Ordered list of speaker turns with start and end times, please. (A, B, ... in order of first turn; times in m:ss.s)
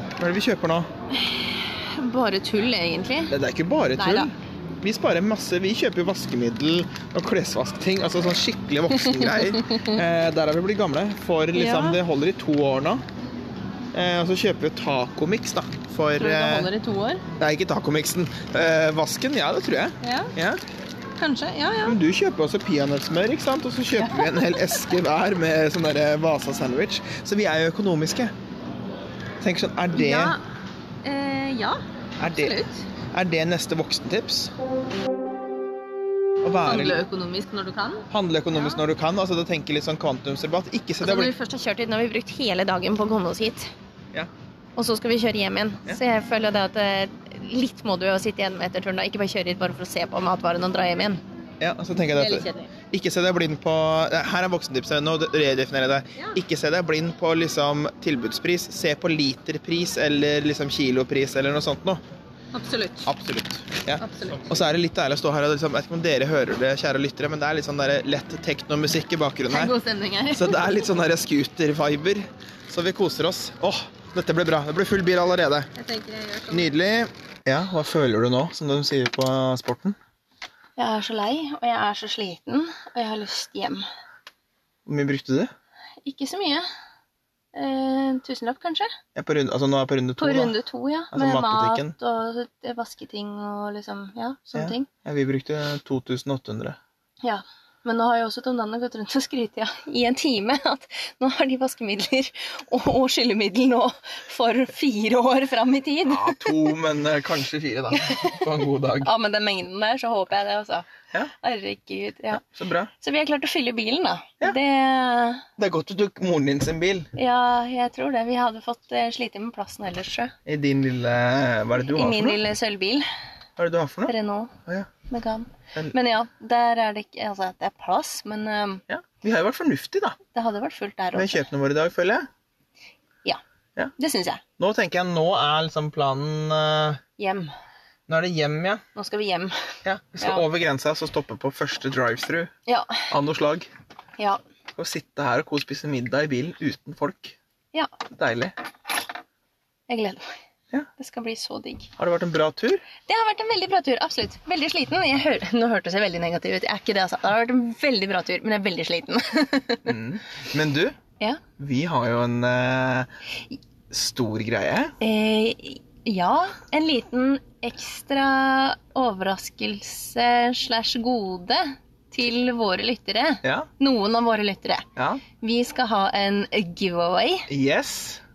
0:00.2-0:00.9 A
0:01.1-0:03.3 B
0:03.3-0:13.0 A
0:04.0-0:04.3 B
0:08.9-0:10.0 B
0:11.5-0:12.0 B
0:13.9-0:16.7 A
0:16.2-0:17.2 B
0:17.4-0:20.6 A
0:20.0-0:20.3 B
0:21.2-0:22.0 B
0:21.8-0:28.3 A
0:24.0-0:24.8 B
0:29.4-0:30.4 A
0:29.9-0:30.4 B
0:31.0-0:32.9 B
0:32.2-0:32.6 A
0:33.1-0:34.5 A
0:36.4-0:37.0 A
0:36.6-0:38.1 B
0:38.1-0:41.3 A
0:41.0-0:43.7 B
0:44.8-0:51.2 B
0:51.6-1:02.0 A
0:52.2-0:52.7 B
1:02.5-1:03.1 B
1:03.1-1:09.7 A
1:04.0-1:04.5 B
1:09.5-1:10.7 B
1:10.3-1:15.7 A
1:15.8-1:16.7 B
1:16.5-1:20.0 A
1:20.8-1:23.8 B
1:24.9-1:25.5 A
1:26.0-1:26.7 B
1:27.5-1:28.9 B
1:29.2-1:30.6 A
1:30.2-1:34.9 B
1:31.1-1:32.0 A
1:34.6-1:36.8 A
1:37.2-1:46.7 B
1:46.1-1:49.1 A
1:48.0-1:48.4 B
1:49.0-1:52.4 B
1:52.3-1:52.9 A
1:53.0-1:55.5 B
1:55.6-1:57.1 A
1:57.2-2:00.3 B
2:00.5-2:02.4 A
2:01.8-2:03.1 B
2:03.6-2:04.1 A
2:04.1-2:04.5 B
2:05.1-2:08.8 B
2:08.9-2:10.2 A
2:10.3-2:11.5 B
2:11.1-2:12.3 A
2:14.0-2:14.4 B
2:14.6-2:17.0 A
2:17.2-2:17.5 B
2:18.1-2:18.8 A
2:19.0-2:20.4 B
2:19.8-2:22.5 A
2:22.7-2:23.1 B
2:23.1-2:23.7 A
2:24.8-2:27.4 A
2:27.7-2:28.0 B
2:28.1-2:28.6 A
2:29.9-2:30.4 B
2:31.0-2:31.9 B
2:32.0-2:32.8 A
2:33.1-2:40.0 B
2:39.9-2:41.0 A
2:41.6-2:43.1 A
2:43.9-2:45.0 A
2:45.0-2:54.9 B
2:53.4-2:53.7 A
2:55.0-2:55.2 A
2:55.4-2:57.5 B
2:57.5-2:58.2 A